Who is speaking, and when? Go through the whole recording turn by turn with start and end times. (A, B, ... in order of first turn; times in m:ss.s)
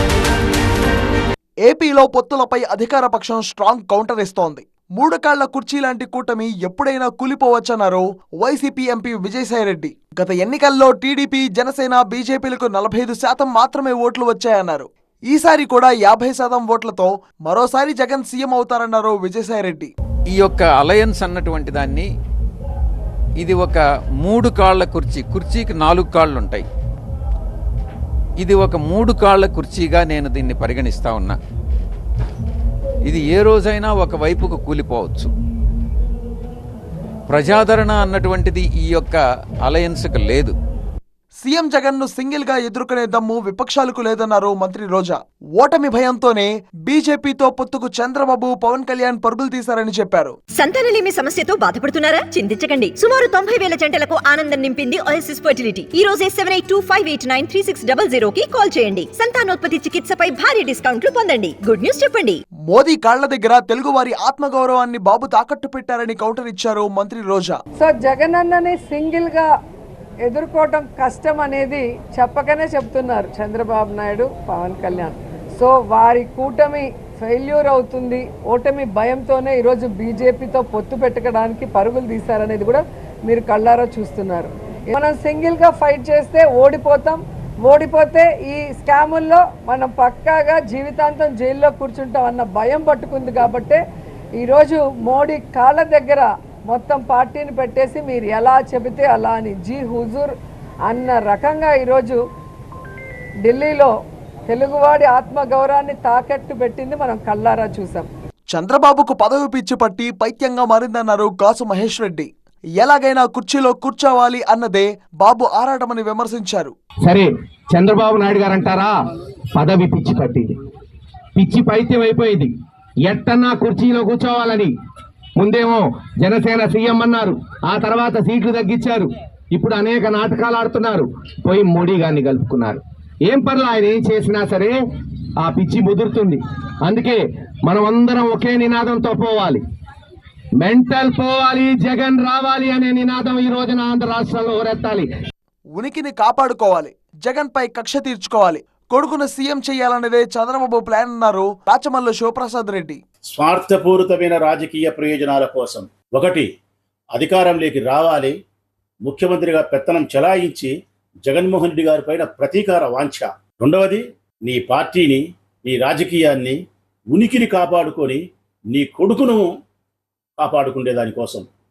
0:01.6-0:19.9 A
0:20.3-0:22.1 B
0:23.4-0:26.6 B
0:28.4-0:31.4 B
0:33.1-0:35.3 B
0:37.3-0:40.6 B
0:41.4-0:50.4 A
0:50.5-1:02.4 C
1:02.7-1:07.6 A
1:07.8-1:09.5 D
1:10.2-1:33.8 D
1:34.4-1:40.3 D
1:40.8-1:42.2 D
1:43.4-1:43.9 D
1:44.5-1:48.1 D
1:48.5-1:56.7 A
1:57.0-1:58.9 E
1:59.5-2:00.6 E
2:01.4-2:02.5 E
2:03.0-2:04.7 E
2:05.4-2:14.8 E
2:15.4-2:19.6 E
2:20.6-2:25.1 E
2:25.7-2:33.0 A
2:33.3-2:36.5 F
2:37.1-2:38.3 F
2:39.0-2:40.7 F
2:41.2-2:46.6 F
2:47.1-2:49.5 F
2:50.4-2:51.4 F